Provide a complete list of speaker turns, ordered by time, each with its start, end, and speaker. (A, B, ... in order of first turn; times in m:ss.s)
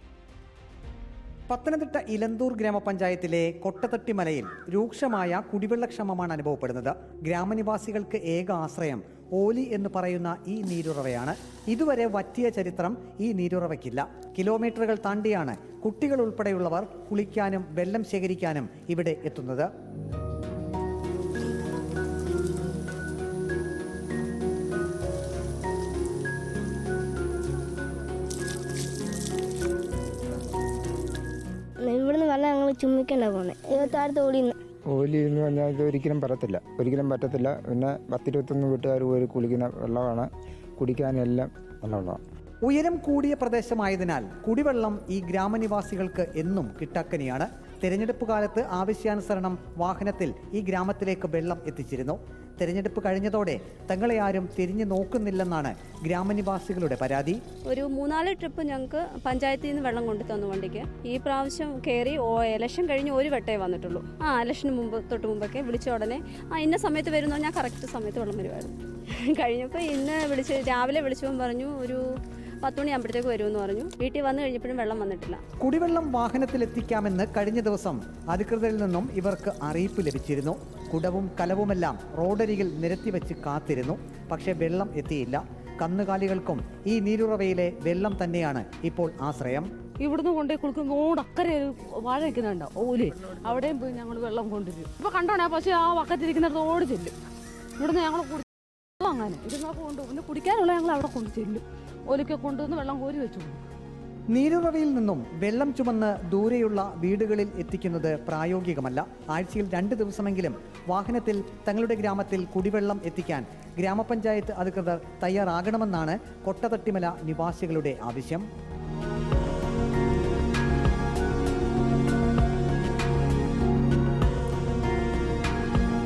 0:01.5-0:19.7 A
0:31.8-0:34.5 B
0:34.8-0:42.2 C
0:42.6-0:57.4 A
0:57.7-1:12.0 D
1:12.6-1:15.4 D
1:15.6-1:29.7 A
1:30.0-1:37.1 E
1:37.8-1:38.5 E
1:39.0-1:43.6 E
1:44.3-1:58.4 A